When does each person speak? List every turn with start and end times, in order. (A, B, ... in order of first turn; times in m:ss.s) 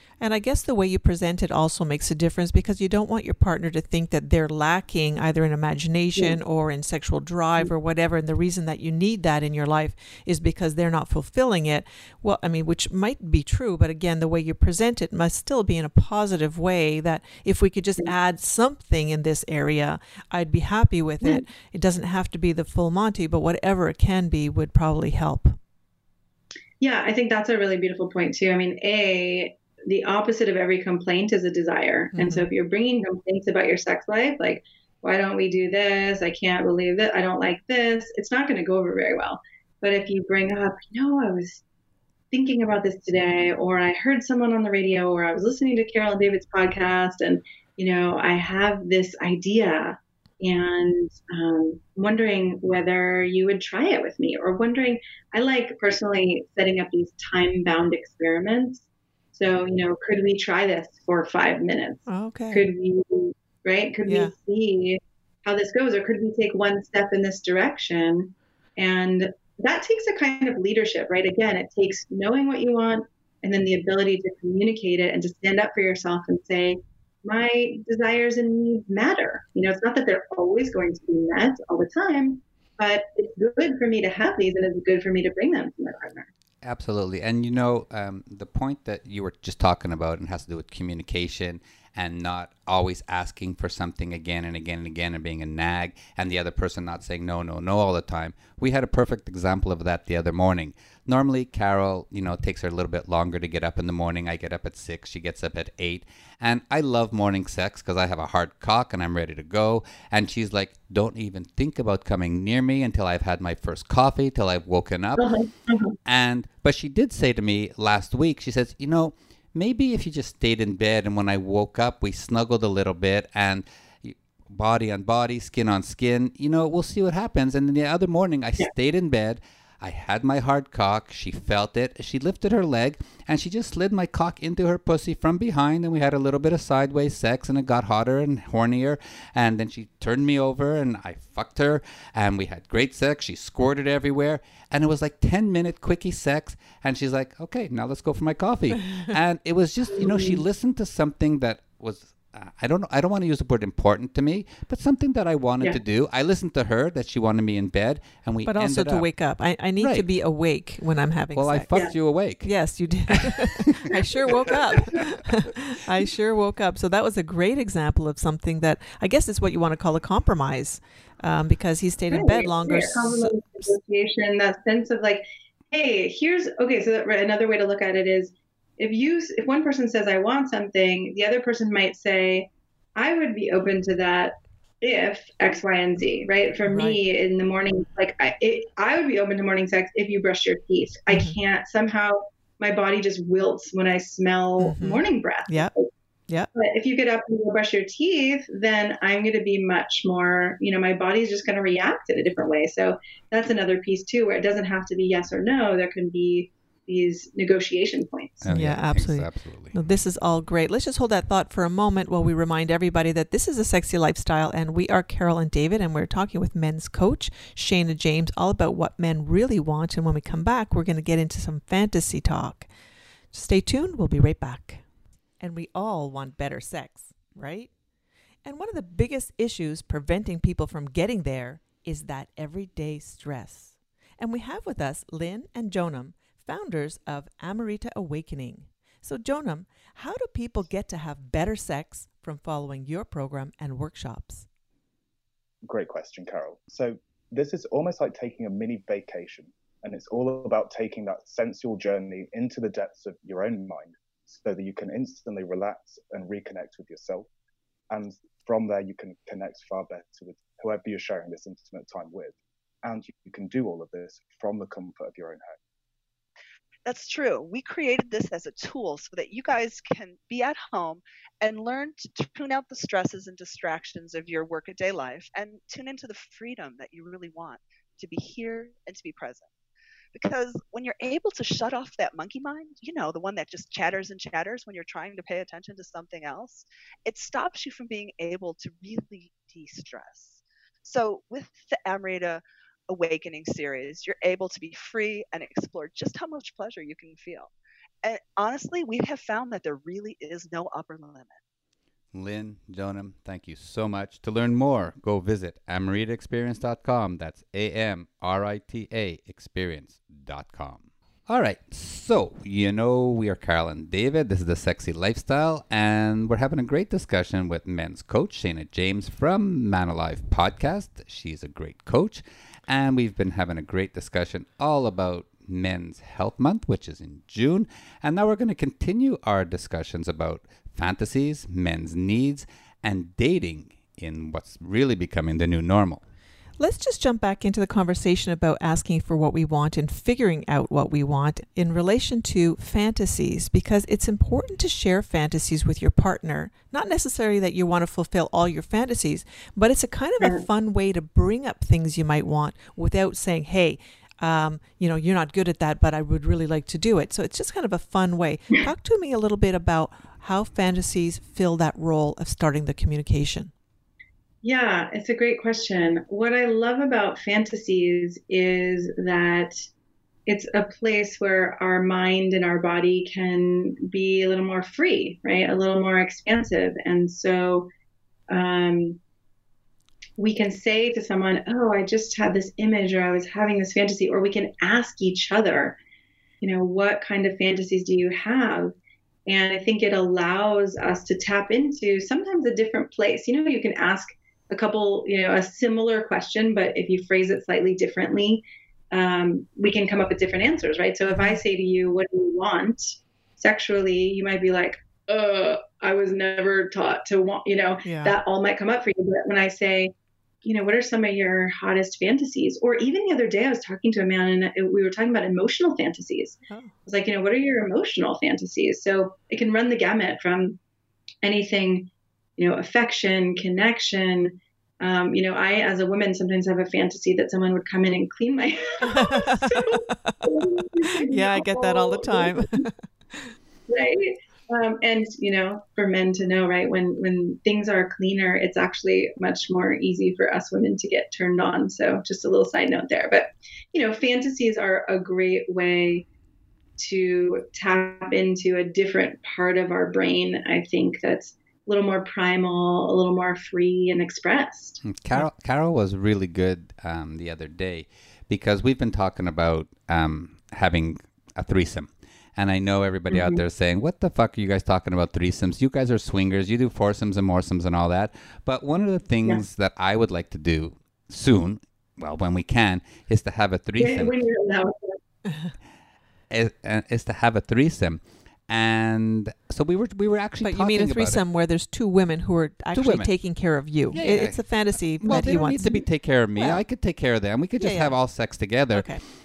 0:00.2-0:25.6 A
0:26.8-0:41.6 B
0:32.1-0:32.5 A
0:42.3-1:26.3 B
1:02.1-1:02.6 A
1:04.0-1:04.3 A
1:26.6-1:55.3 C
1:55.2-1:56.0 B
1:56.1-2:39.1 C
2:30.0-2:30.4 B
2:38.4-2:41.8 A
2:39.8-2:40.1 C
2:41.4-2:42.5 C
2:42.4-2:53.7 A
2:43.1-2:43.4 C
2:52.1-3:15.9 B
3:06.7-3:07.0 A
3:11.1-3:11.4 A
3:14.6-3:15.7 A
3:16.6-3:28.4 B
3:28.4-3:29.7 C
3:28.5-3:42.7 A
3:43.3-3:44.8 A
3:45.4-3:47.7 A
3:48.4-4:04.5 A
4:05.6-4:17.3 D
4:17.9-4:25.6 D
4:26.9-4:39.5 E
4:40.1-4:57.5 E
4:58.0-5:01.4 E
5:02.1-5:36.0 C
5:36.6-6:03.5 A
6:04.4-6:09.6 B
6:10.2-6:17.7 B
6:18.3-6:19.0 B
6:20.2-6:25.8 B
6:26.4-6:28.7 B
6:29.3-6:49.9 B
6:41.1-6:41.4 A
6:47.8-6:48.1 A
6:50.4-7:00.6 B
7:01.2-7:12.6 B
7:08.8-7:10.2 A
7:11.0-7:13.3 A
7:13.7-7:26.1 B
7:26.8-7:34.8 B
7:34.8-7:54.1 C
7:43.1-7:43.4 B
7:53.8-7:55.0 B
7:56.3-8:01.2 C
8:00.4-8:06.6 A
8:02.7-8:03.1 C
8:03.9-8:08.9 C
8:07.6-8:08.0 A
8:08.7-8:09.0 A